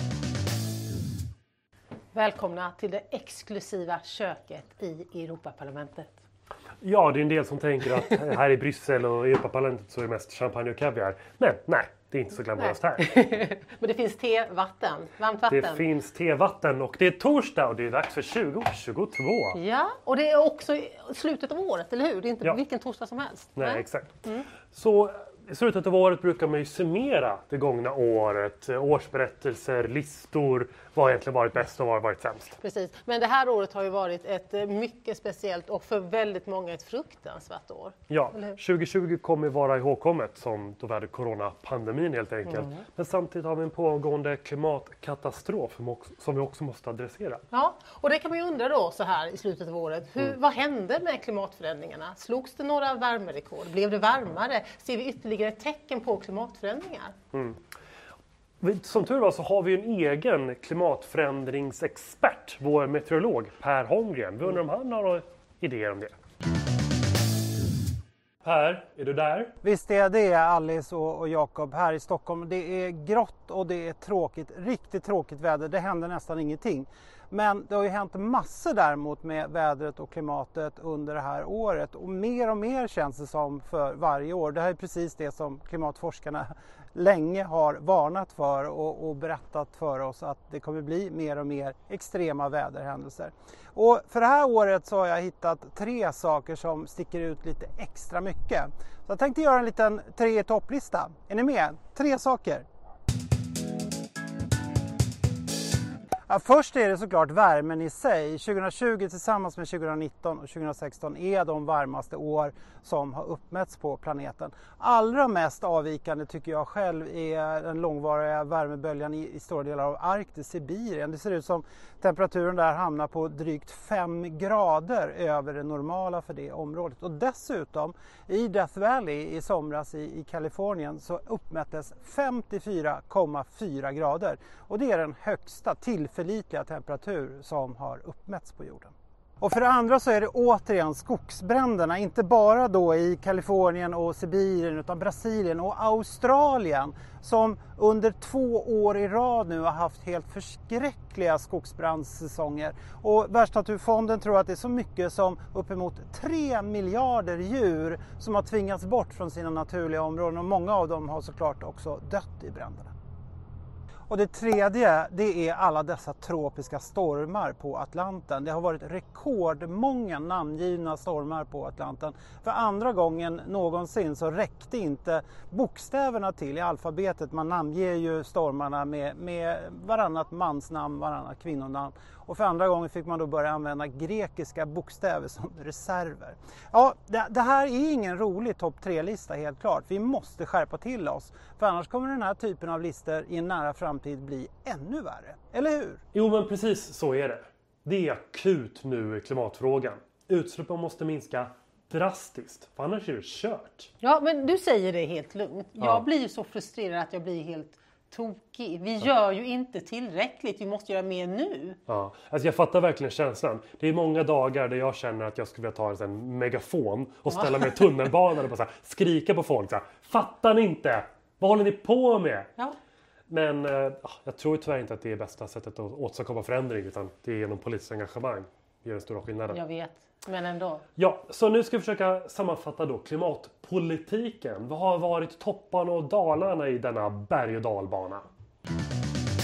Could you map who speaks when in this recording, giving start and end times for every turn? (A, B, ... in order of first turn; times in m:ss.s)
0:02.1-0:06.2 A
0:06.8-0:13.2 B
0:12.6-0:15.8 A
0:15.5-0:19.6 B
0:19.5-0:24.5 A
0:23.6-0:32.6 B
0:32.6-0:38.6 A
0:38.1-0:47.4 B
0:42.5-0:42.8 A
0:47.5-0:57.1 A
0:57.3-0:57.6 B
0:58.6-1:06.1 B
1:08.4-1:09.5 B
1:09.6-1:42.6 C
1:46.3-2:42.9 C
2:44.1-3:16.0 C
3:16.1-3:23.9 B
3:24.0-3:31.8 A
3:25.8-3:26.0 B
3:31.9-3:42.5 B
3:37.3-3:37.9 A
3:43.3-3:49.6 B
3:49.5-3:50.8 A
3:51.0-3:58.2 B